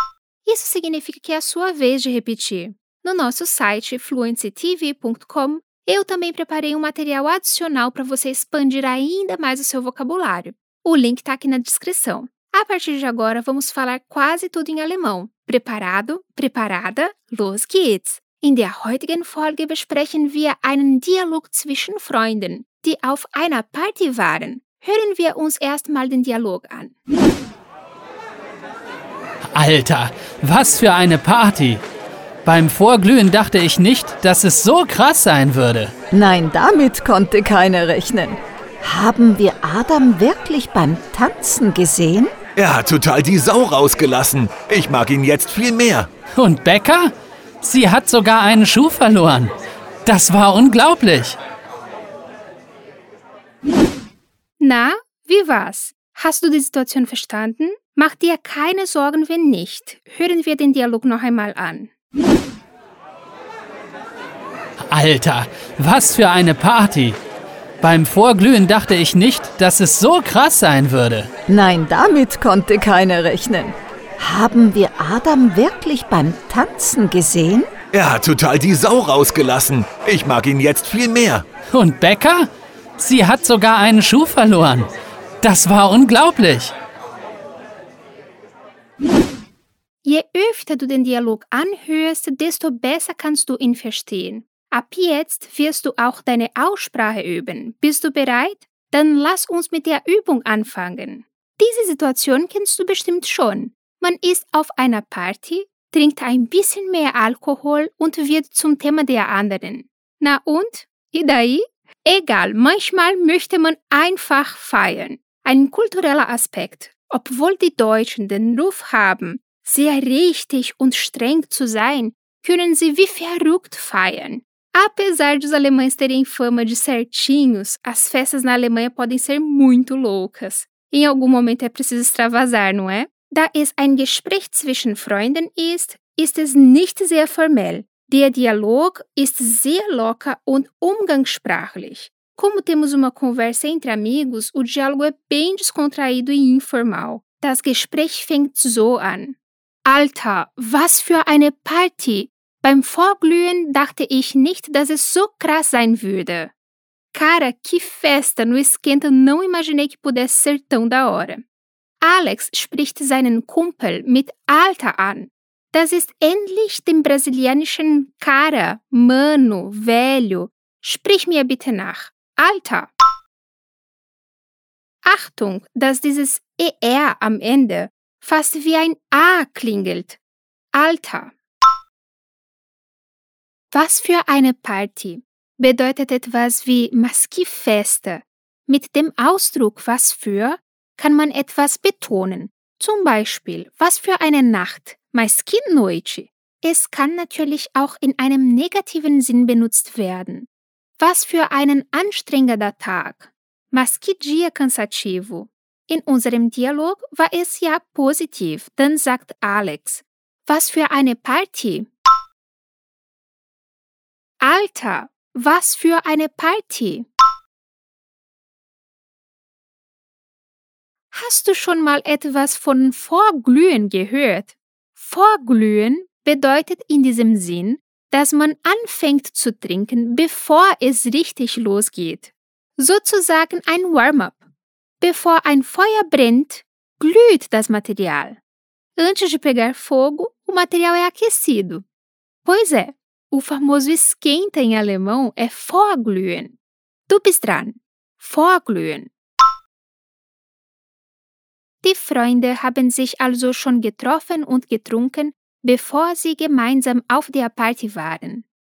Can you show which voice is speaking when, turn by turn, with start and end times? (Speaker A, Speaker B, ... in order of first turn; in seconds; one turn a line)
Speaker A: 0.5-26.9
Speaker B: 29.5-31.8
Speaker B: 32.5-35.9
Speaker C: 36.1-42.3
Speaker D: 42.6-46.1
Speaker B: 46.4-49.5
Speaker B: 50.0-51.4
Speaker A: 54.6-61.9
Speaker B: 64.9-67.2
Speaker B: 67.8-71.3
Speaker C: 71.5-77.7
Speaker D: 77.9-81.5
Speaker B: 81.7-82.5
Speaker B: 83.0-84.9
Speaker B: 85.4-86.7
Speaker A: 90.0-156.5
Speaker A: 157.1-161.4
Speaker A: 162.0-172.9
Speaker A: 175.1-180.2
Speaker A: 180.7-181.3
Speaker A: 183.7-211.9
Speaker A: 214.4-217.1
Speaker A: 221.1-234.4
Speaker A: 235.0-238.4
Speaker A: 239.0-241.8
Speaker A: 242.4-246.6
Speaker A: 247.1-249.1
Speaker A: 251.8-258.4